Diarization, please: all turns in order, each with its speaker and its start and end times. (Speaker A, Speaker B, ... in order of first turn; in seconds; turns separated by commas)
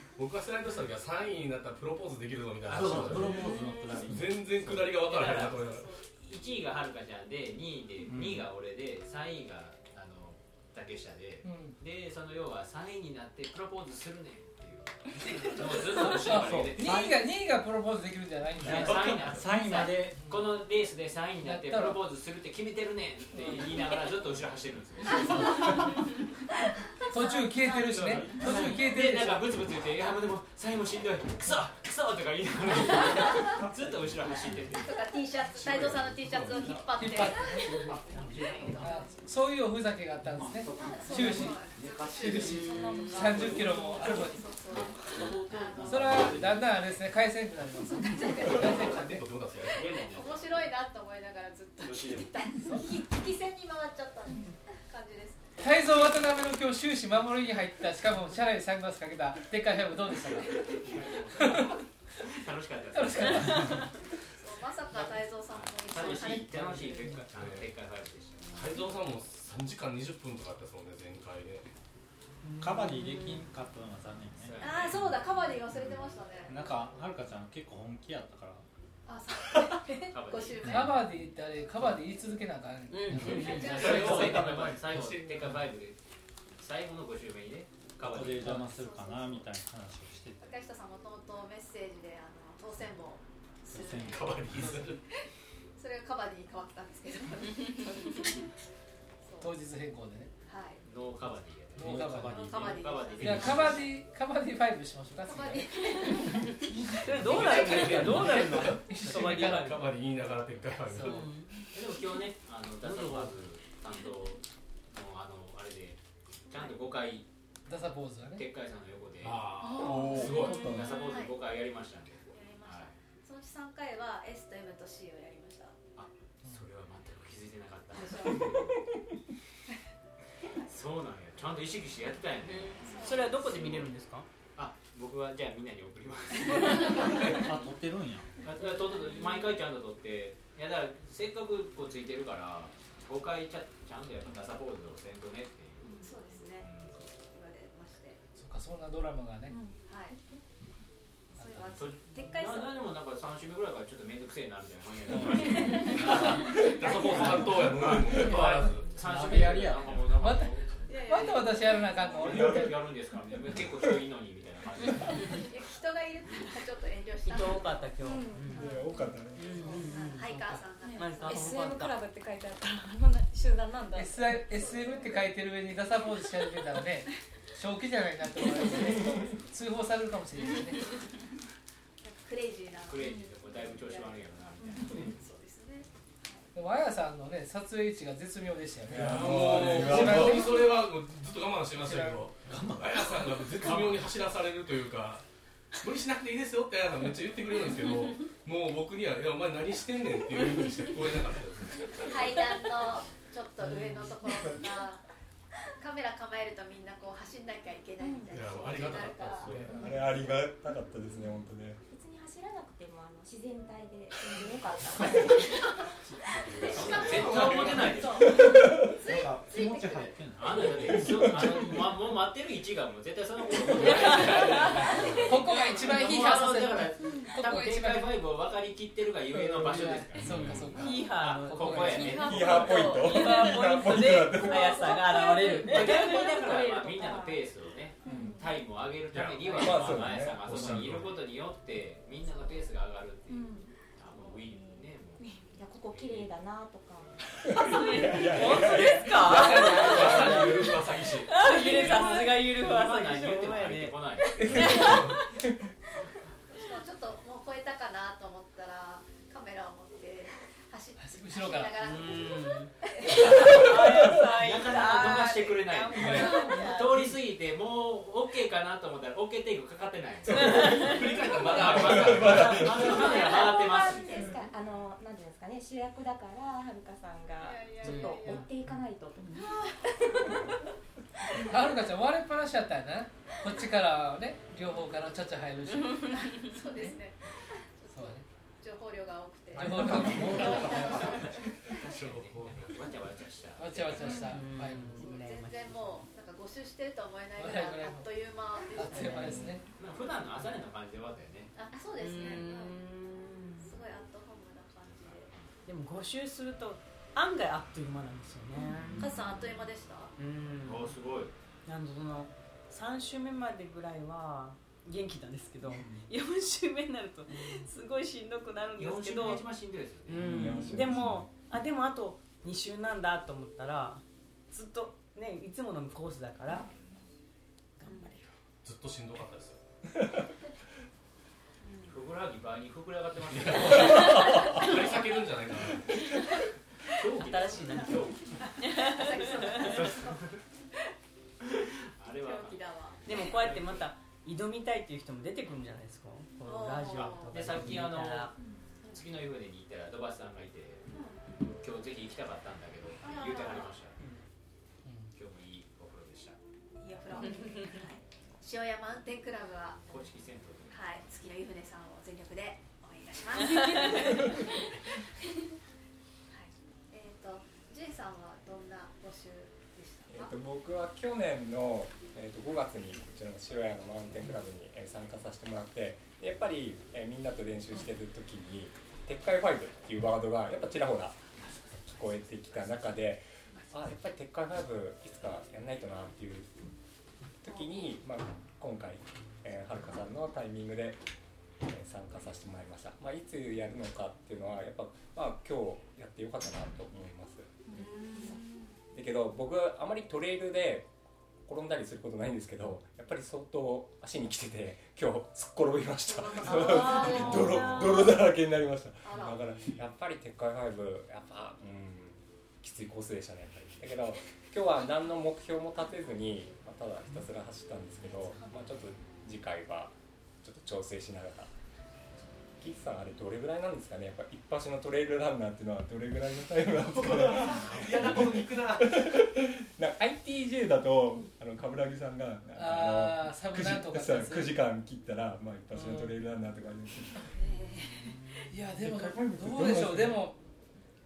Speaker A: 0.1-3.5, Speaker B: 2.7-4.9, Speaker C: 2.7-3.4, Speaker A: 4.1-5.9, Speaker C: 4.7-17.1, Speaker D: 5.5-6.0, Speaker B: 8.1-8.5, Speaker E: 11.4-11.8, Speaker E: 16.1-19.5, Speaker B: 16.4-17.2, Speaker C: 18.6-25.7, Speaker B: 18.6-20.3, Speaker E: 21.4-22.0, Speaker E: 23.4-23.6, Speaker E: 27.1-29.4, Speaker D: 27.1-27.7, Speaker C: 27.8-34.9, Speaker D: 34.8-39.0, Speaker A: 35.5-36.8, Speaker E: 36.9-37.9, Speaker F: 38.1-38.8, Speaker E: 38.8-41.6, Speaker B: 40.4-40.9, Speaker D: 40.8-46.4, Speaker C: 41.7-42.0, Speaker E: 42.1-44.4, Speaker F: 42.3-43.3, Speaker C: 43.1-43.7, Speaker C: 45.1-46.6, Speaker E: 45.8-49.2, Speaker D: 48.0-48.8, Speaker A: 48.5-50.1, Speaker C: 49.7-50.7, Speaker D: 50.1-55.6, Speaker C: 51.8-52.3, Speaker E: 55.6-60.8, Speaker C: 60.7-63.8, Speaker E: 61.4-61.8, Speaker E: 62.9-63.9, Speaker D: 64.4-67.1, Speaker C: 64.9-68.5, Speaker A: 67.3-67.7, Speaker A: 68.5-71.7, Speaker F: 72.4-73.4, Speaker B: 72.6-74.6, Speaker C: 74.4-75.2, Speaker D: 74.6-76.6, Speaker B: 76.5-78.7, Speaker D: 79.0-81.0, Speaker C: 80.1-81.0, Speaker E: 80.6-84.2, Speaker F: 82.9-83.4, Speaker A: 83.2-85.6, Speaker C: 83.3-86.0, Speaker D: 83.5-84.1, Speaker B: 84.1-84.7, Speaker C: 86.6-88.7, Speaker B: 88.0-90.4, Speaker D: 88.6-89.5, Speaker D: 90.4-94.4, Speaker B: 93.7-94.7, Speaker A: 93.9-95.0, Speaker D: 95.8-98.4, Speaker D: 99.2-99.5, Speaker E: 99.4-100.3, Speaker D: 100.5-100.8, Speaker C: 100.8-103.9, Speaker B: 101.8-103.0, Speaker E: 101.8-102.6, Speaker D: 102.2-103.9, Speaker E: 103.2-105.7, Speaker D: 105.2-106.5, Speaker E: 106.9-109.8, Speaker F: 107.0-109.9, Speaker A: 107.1-111.4, Speaker E: 110.9-111.2, Speaker F: 111.0-111.6, Speaker C: 111.7-117.3, Speaker E: 117.7-118.4, Speaker C: 118.3-122.9, Speaker A: 119.2-120.8, Speaker G: 119.6-120.8, Speaker D: 120.9-121.4, Speaker D: 122.3-125.8, Speaker C: 126.0-128.8, Speaker D: 127.9-128.5, Speaker C: 130.7-133.9, Speaker F: 132.4-134.3, Speaker D: 132.8-133.7, Speaker C: 134.6-137.4, Speaker A: 137.0-137.3, Speaker B: 137.3-138.3, Speaker C: 138.4-146.0, Speaker D: 146.0-148.2, Speaker C: 146.6-147.1, Speaker E: 148.4-149.6, Speaker D: 149.9-150.1, Speaker D: 151.3-152.8, Speaker E: 151.4-151.7, Speaker C: 151.6-161.0, Speaker G: 155.6-155.9, Speaker A: 155.8-159.0, Speaker B: 159.1-159.9, Speaker E: 159.2-159.6, Speaker E: 160.1-160.5, Speaker D: 160.9-161.8, Speaker E: 161.1-162.8, Speaker C: 162.2-165.4, Speaker H: 162.4-162.7, Speaker F: 164.9-165.4, Speaker D: 165.3-167.9, Speaker F: 167.2-168.7, Speaker G: 168.0-169.1, Speaker H: 168.5-169.9, Speaker F: 169.3-172.0, Speaker D: 169.6-171.7, Speaker G: 170.8-175.0, Speaker E: 173.9-180.8, Speaker D: 182.0-186.4, Speaker C: 182.8-185.1, Speaker G: 183.0-183.3, Speaker E: 186.5-190.6, Speaker H: 188.9-190.6, Speaker A: 188.9-195.2, Speaker E: 191.8-192.3, Speaker B: 192.4-194.0, Speaker A: 195.8-202.4, Speaker D: 202.0-205.0, Speaker D: 205.8-209.7, Speaker A: 208.3-209.8, Speaker H: 209.6-211.8, Speaker I: 211.9-215.7, Speaker A: 216.2-218.1, Speaker D: 216.6-218.4, Speaker C: 216.7-218.2, Speaker H: 218.3-219.0, Speaker B: 219.0-221.8, Speaker D: 219.5-220.1, Speaker C: 220.3-233.0, Speaker E: 225.2-228.2, Speaker E: 229.3-232.3, Speaker A: 230.2-230.8, Speaker F: 230.7-236.8, Speaker G: 232.0-233.4, Speaker H: 232.2-235.0, Speaker I: 234.8-237.4, Speaker G: 235.2-235.5, Speaker C: 235.5-245.3, Speaker H: 238.1-238.4, Speaker G: 238.1-238.4, Speaker A: 239.1-241.2, Speaker H: 239.6-240.9, Speaker G: 243.3-243.6, Speaker I: 244.2-244.9, Speaker G: 245.2-245.5, Speaker I: 245.4-249.0, Speaker C: 245.8-246.3, Speaker H: 247.4-250.8, Speaker F: 247.7-254.9, Speaker A: 249.2-251.8, Speaker C: 251.8-254.8, Speaker H: 254.4-255.2, Speaker A: 254.6-255.1, Speaker D: 256.5-263.6, Speaker E: 261.0-261.8, Speaker F: 261.8-262.7, Speaker F: 263.2-267.1, Speaker C: 264.3-274.3, Speaker G: 266.2-266.6, Speaker H: 270.3-270.7, Speaker A: 270.3-273.1, Speaker F: 270.5-270.9, Speaker H: 271.7-273.0, Speaker I: 272.9-279.6, Speaker D: 277.4-278.5, Speaker I: 280.2-280.5, Speaker E: 281.4-286.2, Speaker F: 285.9-286.5, Speaker D: 286.0-287.2, Speaker D: 287.8-291.6, Speaker E: 287.9-288.2, Speaker E: 289.6-291.0, Speaker B: 290.2-290.8, Speaker C: 290.4-291.2, Speaker A: 291.3-293.0, Speaker C: 291.8-294.2, Speaker E: 293.6-295.0, Speaker G: 294.0-294.3, Speaker F: 294.1-296.1, Speaker D: 294.9-299.4, Speaker E: 297.4-298.1, Speaker E: 298.7-299.6, Speaker F: 298.9-299.6, Speaker C: 299.8-301.5, Speaker D: 301.5-302.8, Speaker F: 301.9-303.8, Speaker D: 303.6-305.3, Speaker C: 304.9-305.5, Speaker F: 305.6-309.1, Speaker D: 309.0-310.1, Speaker F: 310.2-310.9, Speaker C: 310.6-311.3, Speaker F: 311.6-319.5, Speaker C: 318.7-320.6, Speaker F: 320.1-326.7, Speaker H: 320.2-321.3, Speaker F: 327.8-328.3, Speaker A: 328.6-329.6, Speaker D: 331.6-332.0, Speaker C: 331.9-334.4, Speaker A: 333.2-336.0, Speaker C: 336.9-338.3, Speaker F: 337.2-338.0, Speaker D: 337.5-340.2, Speaker F: 338.6-339.8, Speaker C: 339.5-340.4, Speaker C: 341.4-343.9, Speaker D: 342.2-343.1, Speaker F: 343.1-348.3, Speaker D: 346.4-347.6, Speaker C: 346.9-348.3, Speaker C: 348.9-354.0, Speaker D: 350.9-351.2, Speaker D: 353.0-353.8, Speaker E: 354.8-355.1, Speaker C: 355.1-356.4, Speaker D: 356.8-360.1, Speaker C: 359.9-360.8, Speaker D: 360.7-364.6, Speaker F: 363.4-364.3, Speaker D: 366.3-370.3, Speaker H: 370.1-386.5, Speaker H: 387.4-391.0, Speaker H: 391.6-397.9, Speaker G: 397.7-398.4, Speaker D: 397.8-398.4, Speaker H: 398.9-400.9, Speaker H: 401.4-421.5, Speaker D: 406.1-408.1, Speaker G: 406.6-407.2, Speaker D: 409.0-409.4, Speaker H: 422.6-437.3, Speaker A: 426.8-429.2, Speaker E: 432.5-434.6, Speaker E: 435.7-436.1, Speaker F: 438.1-438.4, Speaker E: 438.5-440.4, Speaker H: 438.8-440.3